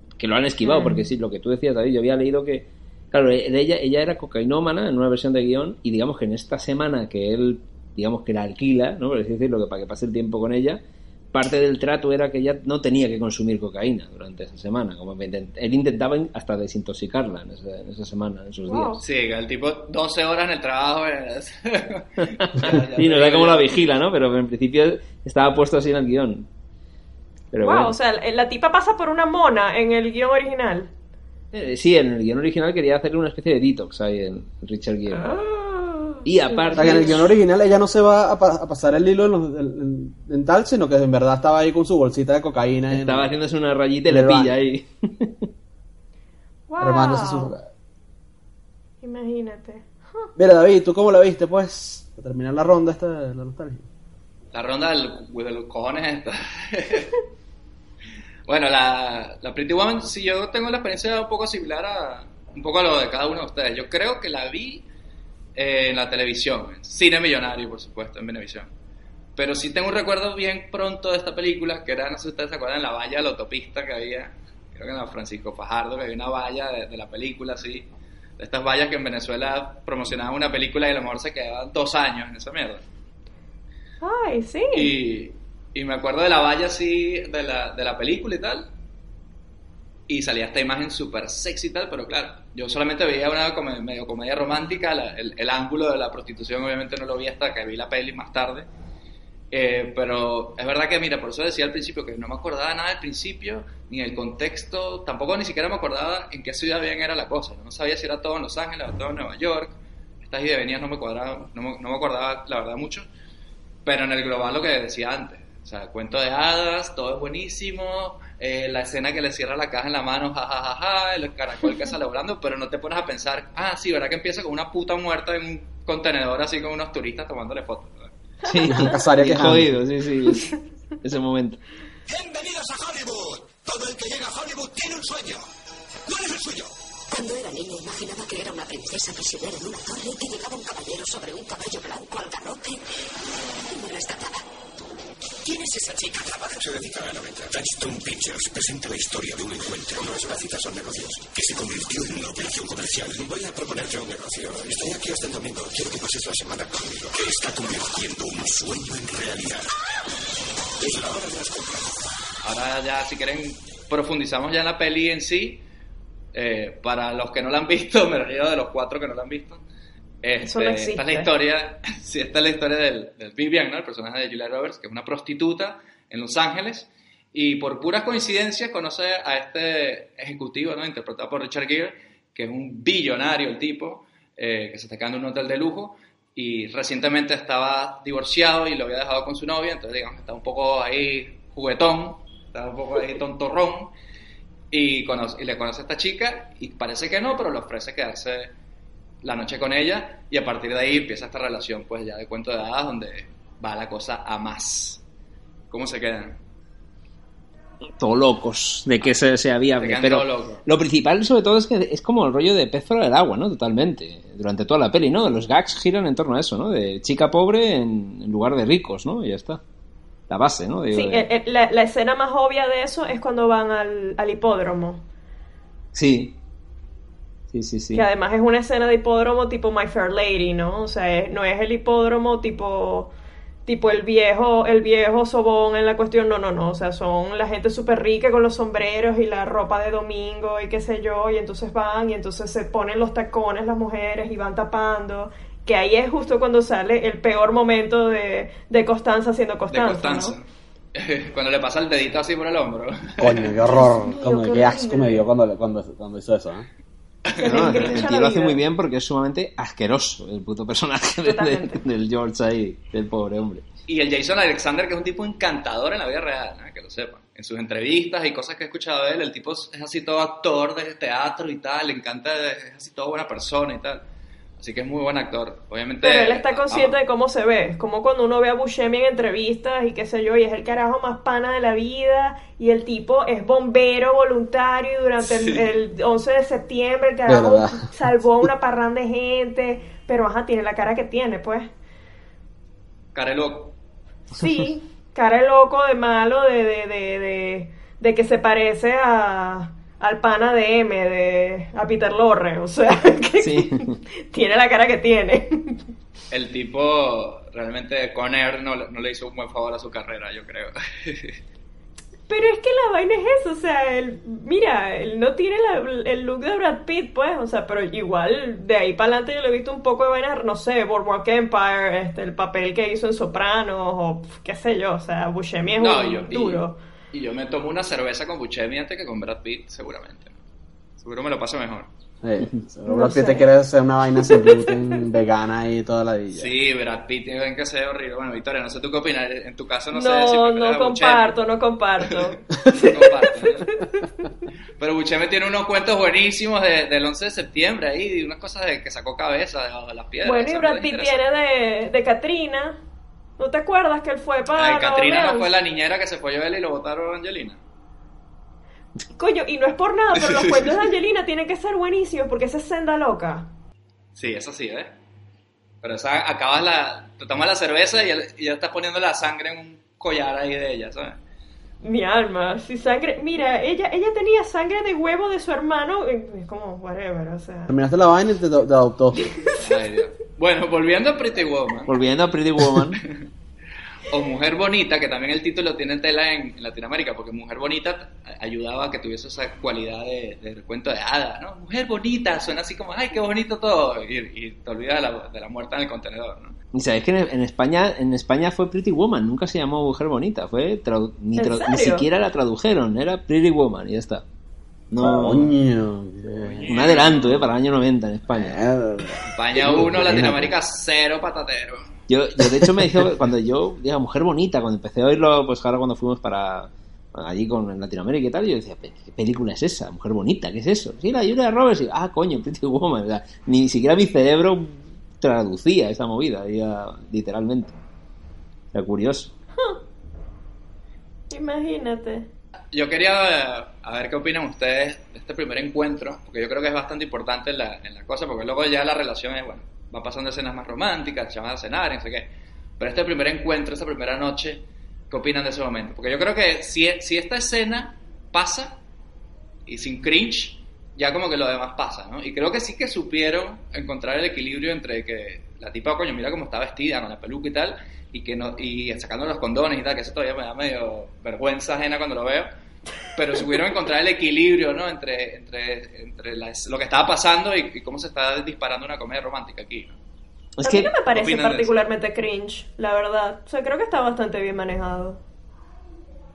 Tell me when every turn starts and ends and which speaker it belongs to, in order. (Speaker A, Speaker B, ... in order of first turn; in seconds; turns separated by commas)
Speaker A: 0.2-10.8, Speaker B: 0.6-1.0, Speaker A: 11.3-19.0, Speaker B: 18.7-19.0, Speaker C: 19.0-23.9, Speaker A: 22.2-26.5, Speaker A: 27.5-27.9, Speaker B: 27.6-30.9, Speaker A: 31.5-35.4, Speaker B: 35.1-37.2, Speaker A: 36.2-37.3, Speaker D: 36.7-43.3, Speaker A: 42.9-45.5, Speaker D: 44.1-44.5, Speaker B: 46.7-47.6, Speaker D: 46.8-47.7, Speaker B: 49.0-50.3, Speaker D: 50.4-53.9, Speaker C: 54.5-57.2, Speaker C: 58.5-64.9, Speaker C: 65.5-68.7, Speaker C: 69.4-77.9, Speaker C: 78.4-82.8, Speaker B: 84.0-84.9, Speaker C: 84.7-88.7, Speaker C: 90.1-98.7, Speaker C: 99.5-113.1, Speaker C: 113.8-128.1, Speaker A: 128.5-131.6, Speaker D: 128.7-129.8, Speaker E: 132.1-135.4, Speaker F: 137.1-142.8, Speaker F: 143.7-144.4, Speaker F: 145.4-146.5, Speaker E: 146.6-159.7, Speaker E: 160.8-161.8, Speaker C: 162.4-165.6, Speaker C: 166.3-169.6, Speaker C: 170.2-193.9, Speaker B: 170.4-171.3, Speaker C: 194.7-198.5, Speaker C: 199.2-205.0, Speaker C: 205.7-206.4, Speaker A: 208.0-219.6, Speaker C: 209.8-210.6, Speaker A: 220.3-221.3, Speaker B: 220.9-225.0, Speaker A: 225.9-226.3, Speaker A: 227.5-228.1, Speaker B: 227.9-233.1, Speaker B: 233.7-250.4, Speaker C: 249.7-253.7, Speaker D: 253.2-256.7, Speaker B: 253.7-255.3, Speaker C: 257.3-258.0, Speaker B: 257.4-258.6, Speaker A: 257.4-263.6, Speaker B: 261.2-261.8, Speaker C: 263.9-274.0, Speaker C: 274.6-277.0, Speaker B: 276.0-291.7, Speaker C: 285.2-285.6, Speaker D: 287.3-287.9, Speaker C: 293.1-293.7, Speaker B: 294.3-305.8, Speaker A: 303.4-304.0, Speaker C: 306.3-311.4, Speaker B: 312.3-326.8, Speaker C: 325.8-330.4, Speaker C: 331.0-331.9, Speaker D: 332.2-336.6, Speaker B: 332.9-333.5, Speaker B: 334.2-334.7, Speaker C: 336.3-341.4, Speaker B: 339.9-344.1, Speaker C: 342.0-343.7, Speaker C: 344.8-351.2, Speaker B: 350.2-352.8, Speaker B: 353.4-355.5, Speaker C: 354.5-357.6, Speaker B: 359.2-363.5, Speaker C: 360.1-360.9, Speaker C: 364.2-364.9, Speaker C: 365.8-371.2, Speaker B: 371.8-377.7, Speaker D: 377.7-379.3, Speaker C: 379.6-381.9, Speaker A: 381.9-383.0, Speaker C: 384.1-396.6, Speaker A: 396.7-404.2, Speaker B: 401.4-402.1, Speaker A: 404.9-405.5, Speaker D: 405.0-406.7, Speaker C: 406.6-407.5, Speaker A: 406.6-408.6, Speaker D: 408.3-410.5, Speaker C: 409.3-411.9, Speaker A: 412.1-427.8, Speaker D: 412.4-413.0, Speaker A: 428.7-429.3, Speaker B: 431.3-432.3, Speaker C: 432.7-448.8, Speaker C: 449.7-462.5, Speaker C: 463.1-470.0, Speaker A: 470.6-470.9, Speaker B: 470.6-475.2, Speaker C: 471.1-471.7